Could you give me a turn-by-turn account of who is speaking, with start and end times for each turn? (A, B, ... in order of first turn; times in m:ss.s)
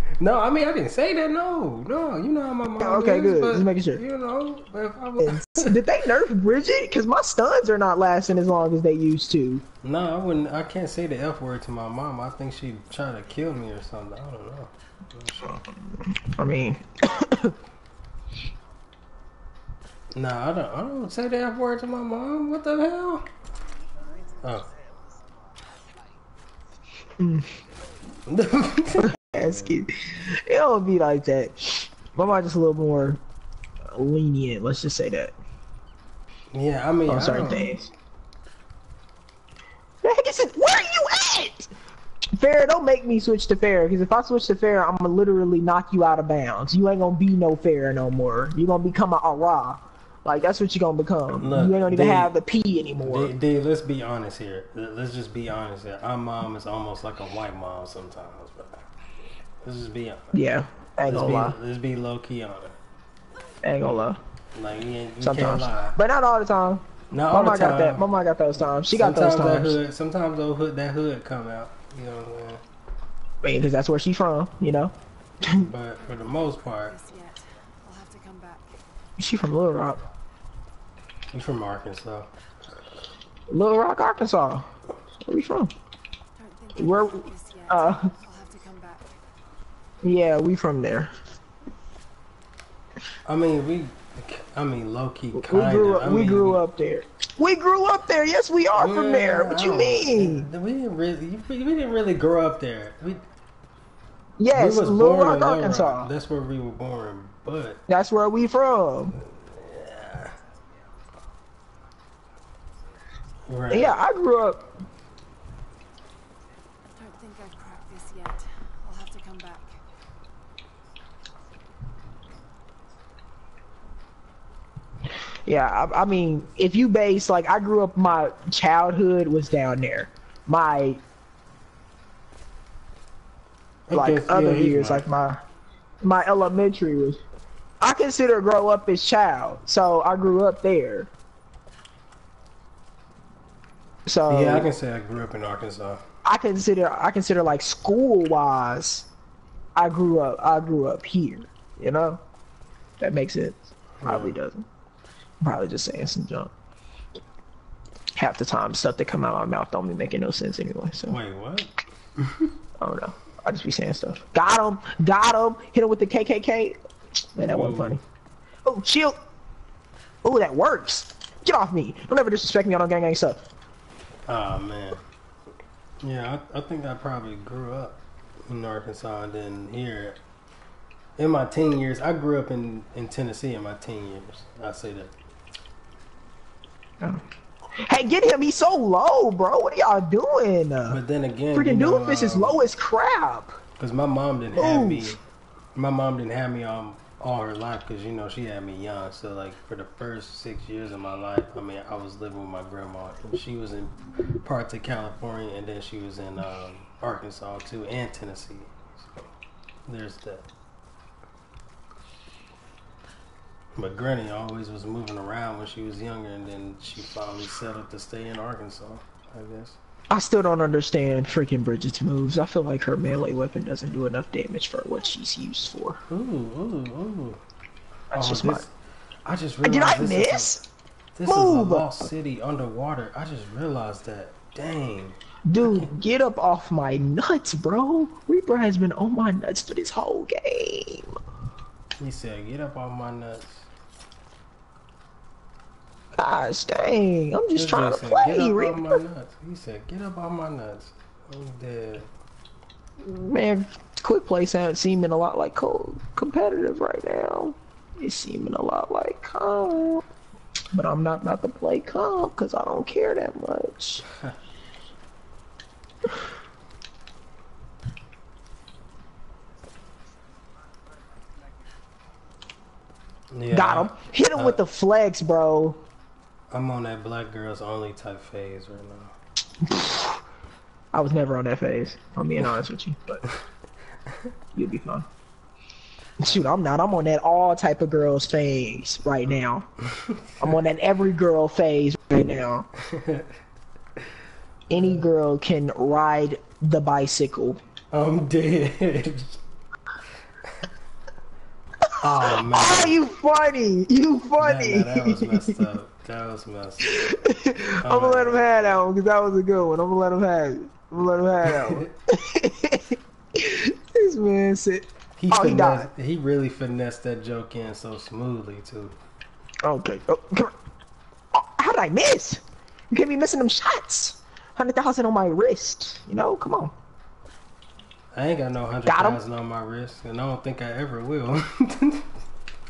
0:00.2-0:05.8 A
0:02.8-0:04.0 B
0:05.2-0:09.6 B
0:09.8-0:15.6 A
0:15.6-0:17.5 B
0:20.1-0:23.3 A
0:24.4-0:24.7 A
0:27.2-0:27.5 B
0:28.3-0:29.7 A
0:29.0-0:33.2 B
0:33.9-0:35.3 B
0:36.5-0:37.8 A
0:37.1-0:37.9 B
0:40.0-0:41.7 B
0:42.4-0:53.3 B
0:51.4-0:52.3 A
0:53.0-0:58.8 A
0:59.6-1:00.4 A
1:00.3-1:01.6 B
1:01.1-1:02.8 A
1:03.6-1:04.2 B
1:04.5-1:06.0 A
1:05.2-1:09.8 B
1:07.1-1:08.0 A
1:08.9-1:12.6 A
1:13.4-1:15.6 B
1:15.5-1:17.0 A
1:16.9-1:18.6 C
1:19.2-1:20.0 B
1:21.3-1:22.3 A
1:23.5-1:24.6 B
1:25.2-1:25.7 B
1:26.4-1:29.0 C
1:26.8-1:28.1 B
1:30.0-1:31.1 B
1:33.2-1:36.6 A
1:35.3-1:40.5 B
1:38.7-1:43.2 A
1:44.4-1:46.1 B
1:44.5-1:47.8 A
1:47.9-1:49.2 B
1:49.3-1:50.3 A
1:53.5-1:54.0 A
1:53.7-1:54.6 B
1:57.0-1:59.8 C
2:05.4-2:11.0 B
2:13.9-2:15.0 A
2:13.9-2:15.4 B
2:16.0-2:17.2 B
2:17.8-2:21.1 B
2:24.0-2:24.7 B
2:24.3-2:26.0 A
2:26.2-2:29.1 B
2:29.8-2:32.2 B
2:33.0-2:34.6 B
2:34.0-2:34.4 A
2:35.4-2:36.5 B
2:38.2-2:41.2 B
2:41.1-2:42.5 A
2:42.8-2:46.8 B
2:47.3-2:48.0 B
2:47.4-2:48.0 A
2:48.6-2:49.1 B
2:50.2-2:53.4 B
2:54.3-2:55.0 A
2:56.0-3:00.2 A
3:01.2-3:05.1 A
3:07.8-3:11.0 B
3:10.9-3:12.6 A
3:11.5-3:13.6 B
3:13.8-3:15.2 A
3:14.5-3:15.1 B
3:15.7-3:29.2 A
3:29.9-3:30.5 A
3:33.8-3:39.8 A
3:40.1-3:46.0 B
3:46.1-3:47.4 A
3:48.1-3:48.6 B
3:48.1-3:48.7 A
3:49.2-3:50.6 A
3:49.6-3:50.6 B
3:51.1-3:55.9 A
3:51.3-3:52.1 B
3:55.5-4:01.2 B
4:02.0-4:03.7 A
4:06.2-4:09.0 B
4:07.5-4:12.1 A
4:13.0-4:20.0 B
4:20.7-4:24.0 B
4:33.3-4:34.6 A
4:33.5-4:35.8 B
4:36.5-4:39.1 A
4:39.7-4:40.1 B
4:40.9-4:43.2 B
4:44.5-4:45.0 B
4:46.2-4:49.6 B
4:49.8-4:50.6 A
4:50.4-4:52.6 B
4:52.8-4:53.3 A
4:54.7-4:57.6 B
4:54.7-4:55.0 A
4:57.9-4:59.4 A
5:02.0-5:03.0 A
5:02.3-5:05.6 B
5:04.4-5:06.9 A
5:06.8-5:15.9 B
5:07.8-5:08.8 A
5:11.6-5:11.9 A
5:15.2-5:19.0 A
5:19.6-5:20.5 B
5:21.3-5:26.7 B
5:28.1-5:32.1 A
5:28.8-5:29.2 B